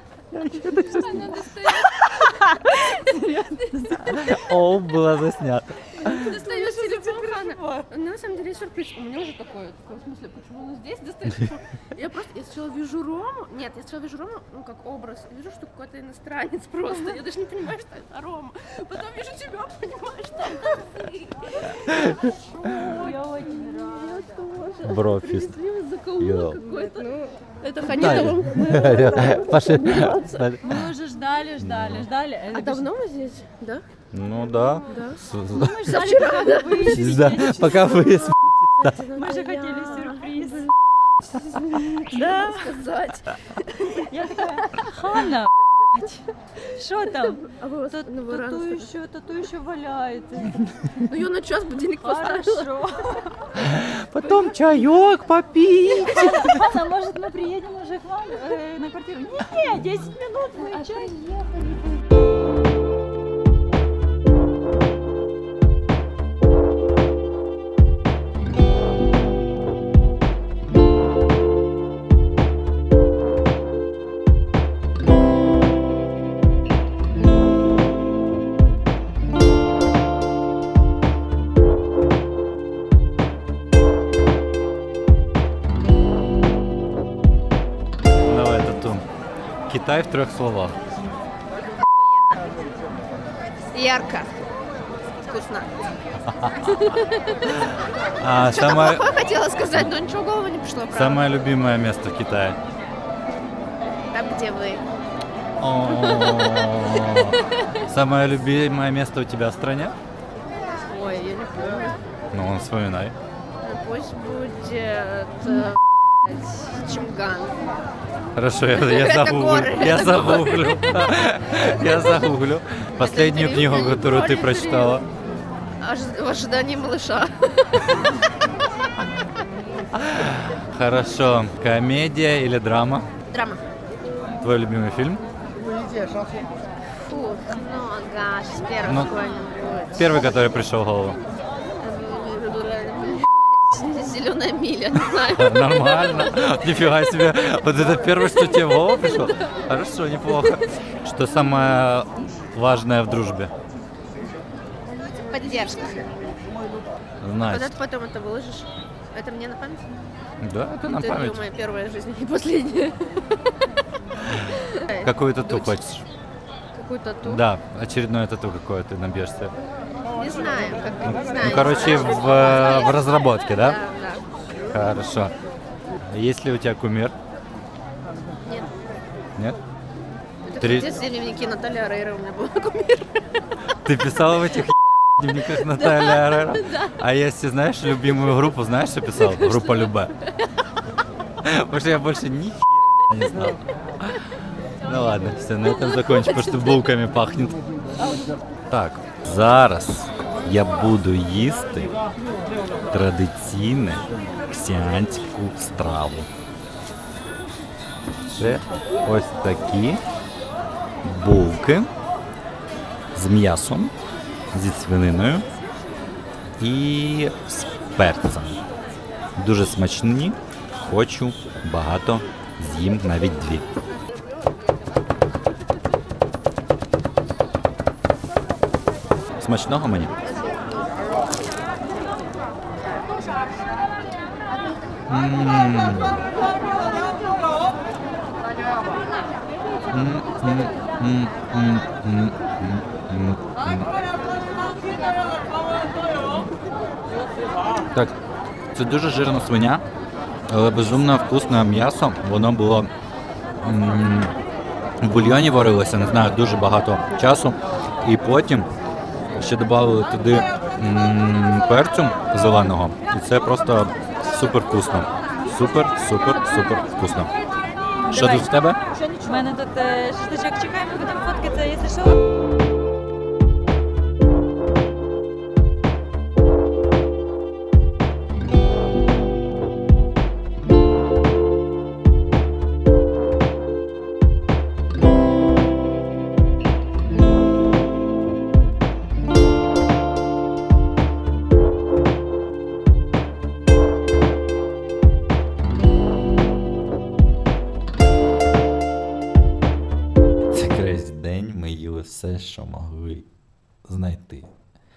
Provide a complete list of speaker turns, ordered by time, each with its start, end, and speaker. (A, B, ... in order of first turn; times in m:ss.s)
0:00.3-0:01.4 A
0:00.8-0:02.1 B
0:01.9-0:04.4 C
0:04.0-0:06.3 A
0:06.0-0:07.8 C
0:06.0-0:22.1 B
0:21.9-0:22.3 A
0:22.6-0:24.6 C
0:22.7-0:23.1 B
0:24.2-0:30.5 B
0:24.8-0:25.6 A
0:26.2-0:26.6 A
0:26.6-0:27.0 C
0:27.9-0:30.8 A
0:28.8-0:29.3 C
0:30.6-0:32.9 C
0:31.6-0:32.1 A
0:32.5-0:33.8 B
0:34.1-0:35.9 A
0:34.9-0:35.2 B
0:35.5-0:37.9 C
0:35.8-0:38.1 B
0:36.8-0:39.0 A
0:38.8-0:44.9 B
0:39.1-0:40.7 C
0:41.7-0:42.8 C
0:44.0-0:51.0 C
0:47.4-0:48.9 B
0:51.0-0:52.7 B
0:51.9-0:53.4 C
0:53.6-0:56.6 A
0:56.0-1:01.2 C
1:28.2-1:29.0 A
1:29.7-1:30.8 A
1:31.8-1:32.6 B
1:33.7-1:34.4 B
1:35.2-1:35.9 B
1:36.3-1:36.6 A
1:36.6-1:37.5 B
1:37.5-1:39.1 A
1:38.3-1:41.2 B
1:40.9-1:42.6 A
1:44.1-1:44.8 B
1:45.6-1:50.0 A
1:45.9-1:47.6 B
1:50.6-1:52.0 B
1:52.3-1:53.1 A
1:53.6-1:57.6 B
1:58.4-2:05.0 A
1:58.7-2:00.8 B
2:03.0-2:05.0 B
2:05.8-2:08.1 B
2:09.9-2:13.1 A
2:13.3-2:13.6 B
2:14.4-2:15.2 A
2:17.0-2:20.1 B
2:18.8-2:19.1 A
2:19.9-2:21.2 A
2:21.8-2:26.3 B
2:25.3-2:33.5 A
2:28.8-2:29.5 B
2:35.0-2:36.1 B
2:37.2-2:37.8 A
2:37.4-2:39.9 B
2:40.4-2:41.4 A
2:40.9-2:43.5 B
2:44.3-2:45.8 B
2:44.9-2:46.1 A
2:46.7-2:47.4 B
2:47.2-2:49.5 A
2:50.1-2:54.2 B
2:51.0-2:53.8 A
2:54.7-2:55.3 A
2:56.0-2:57.2 A
2:58.4-2:58.7 B
3:00.4-3:03.2 B
3:00.6-3:01.0 A
3:03.8-3:10.1 A
3:05.4-3:07.0 B
3:09.1-3:10.5 B
3:11.4-3:14.2 A
3:14.8-3:17.6 A
3:15.6-3:16.9 B
3:18.0-3:18.3 B
3:18.7-3:21.9 A
3:22.9-3:26.3 A
3:28.3-3:30.0 A
3:31.0-3:31.9 A
3:33.1-3:33.9 A
3:34.5-3:35.4 A
3:36.6-3:38.6 A
3:39.4-3:43.7 A
3:49.4-3:50.1 A
3:50.3-3:50.9 B
3:55.1-3:56.2 A
3:59.9-4:03.9 A
4:08.7-4:09.8 A
4:10.5-4:12.9 A
4:13.6-4:14.3 A
4:15.0-4:18.7 A
4:19.3-4:27.3 A
4:27.9-4:32.2 C
4:28.1-4:28.8 A
5:00.5-5:03.3 A
5:03.8-5:04.5 A